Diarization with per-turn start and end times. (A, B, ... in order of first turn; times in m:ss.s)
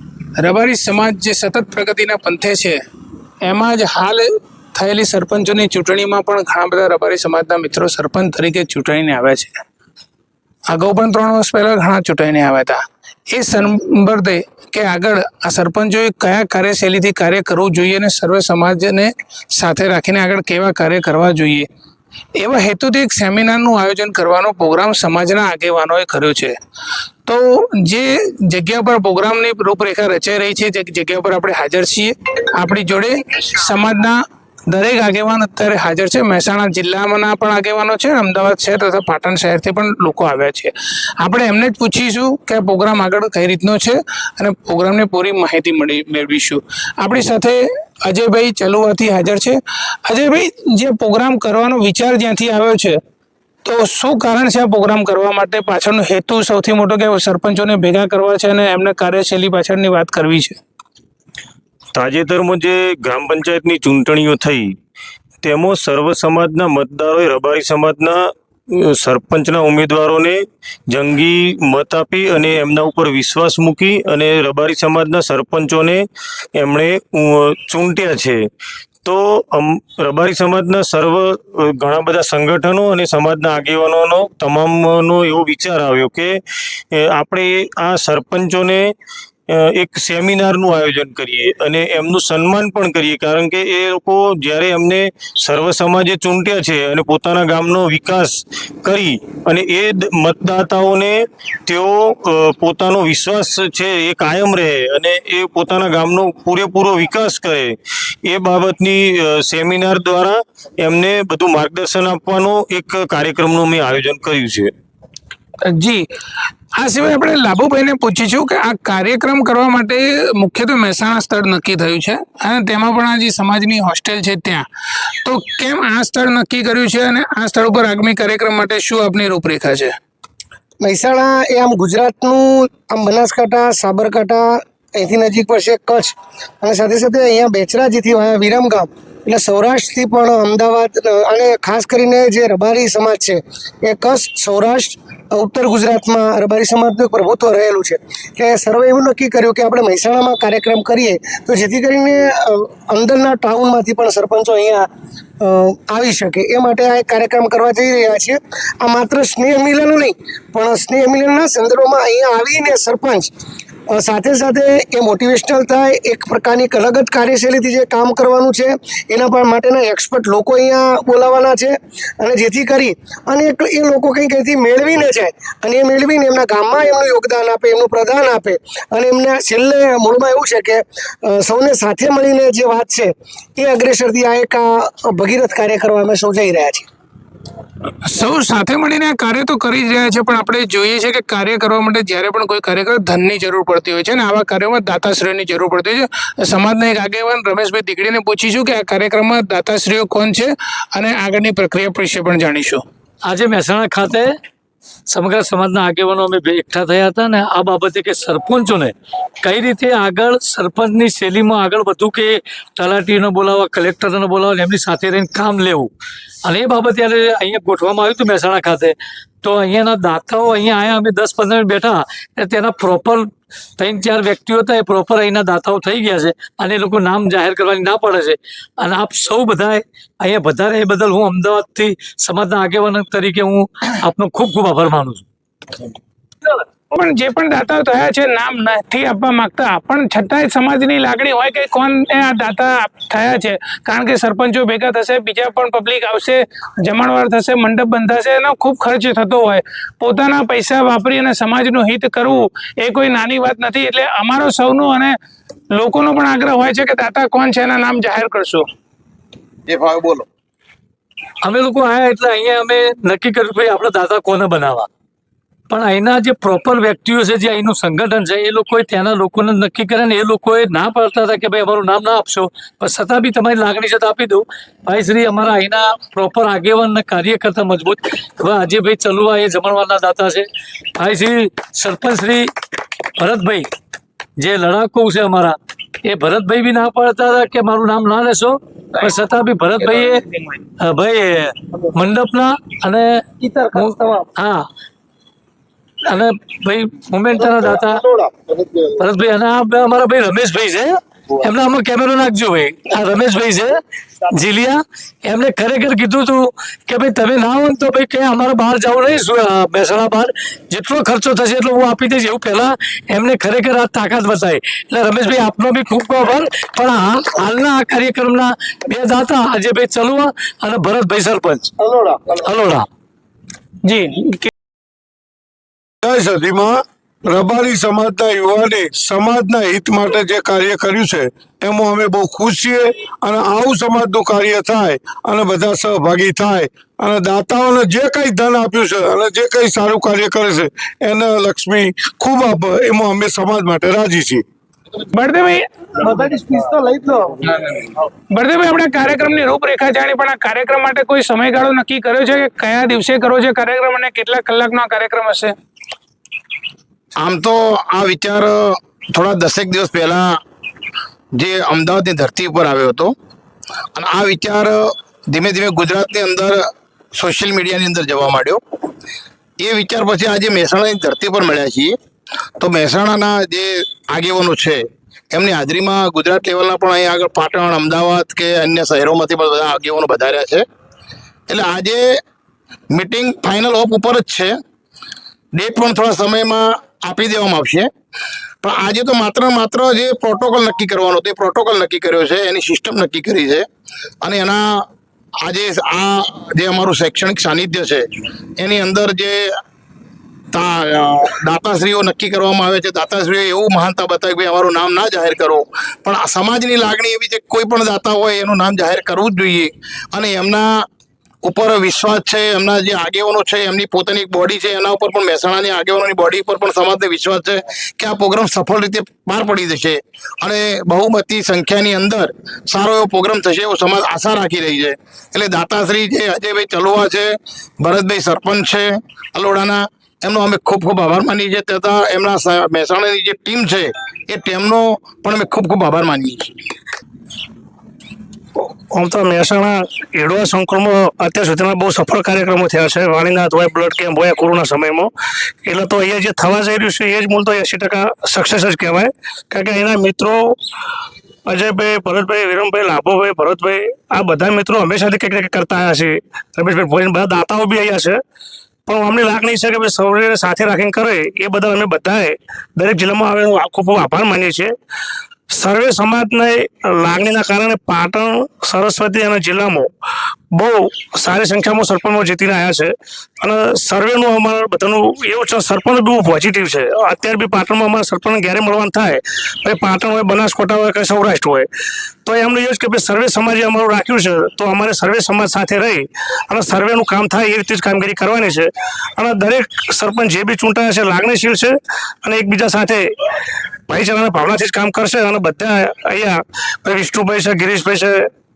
0:00.4-0:02.8 A
0:03.4-0:09.6 A
0:10.7-0:21.7 A
0:22.3-0:26.5 A
0:27.2-0:53.0 A
0:53.6-1:00.6 A
1:01.9-1:04.7 B
1:05.4-1:08.2 B
1:08.7-1:10.4 B
1:10.9-1:16.0 B
1:16.6-1:18.4 B
1:19.0-1:26.3 B
1:26.9-1:28.8 B
1:29.5-1:41.1 B
1:41.7-1:54.7 B
1:55.6-1:56.0 A
1:56.8-2:04.6 A
2:05.2-2:09.9 A
2:10.8-2:34.9 C
2:35.4-2:43.3 C
2:43.9-3:06.9 C
3:08.0-3:22.8 A
3:23.2-3:24.3 D
3:25.1-3:35.9 D
3:36.4-3:55.2 D
3:56.9-4:15.1 A
4:15.7-4:18.6 A
4:19.7-4:20.2 E
4:21.4-4:24.9 D
4:25.7-4:40.4 D
4:41.0-4:42.5 D
4:43.2-4:43.6 D
4:44.4-4:50.2 D
4:50.8-4:54.6 D
4:53.5-4:54.0 C
4:56.1-4:58.0 D
4:59.0-5:21.7 D
5:21.8-5:22.2 C
5:22.4-5:22.8 D
5:23.8-5:24.5 A
5:26.0-5:44.4 F
5:45.1-5:45.6 A
5:46.1-5:47.1 C
5:48.3-5:55.5 A
5:57.2-6:00.4 E
6:01.3-6:03.1 E
6:03.9-6:08.6 E
6:09.6-6:11.9 E
6:12.6-6:20.6 E
6:21.5-6:22.2 E
6:22.9-6:24.5 E
6:25.5-6:27.9 E
6:28.6-6:33.6 E
6:34.2-6:34.8 E
6:35.4-6:38.0 E
6:38.6-6:39.5 E
6:40.5-6:50.9 E
6:51.4-7:16.6 E
7:18.9-7:25.1 G
7:25.6-7:30.5 G
7:31.5-7:38.2 G
7:38.9-7:44.7 G
7:45.5-7:49.9 G
7:50.5-8:01.7 G
8:02.2-8:13.0 G
8:13.9-8:18.2 G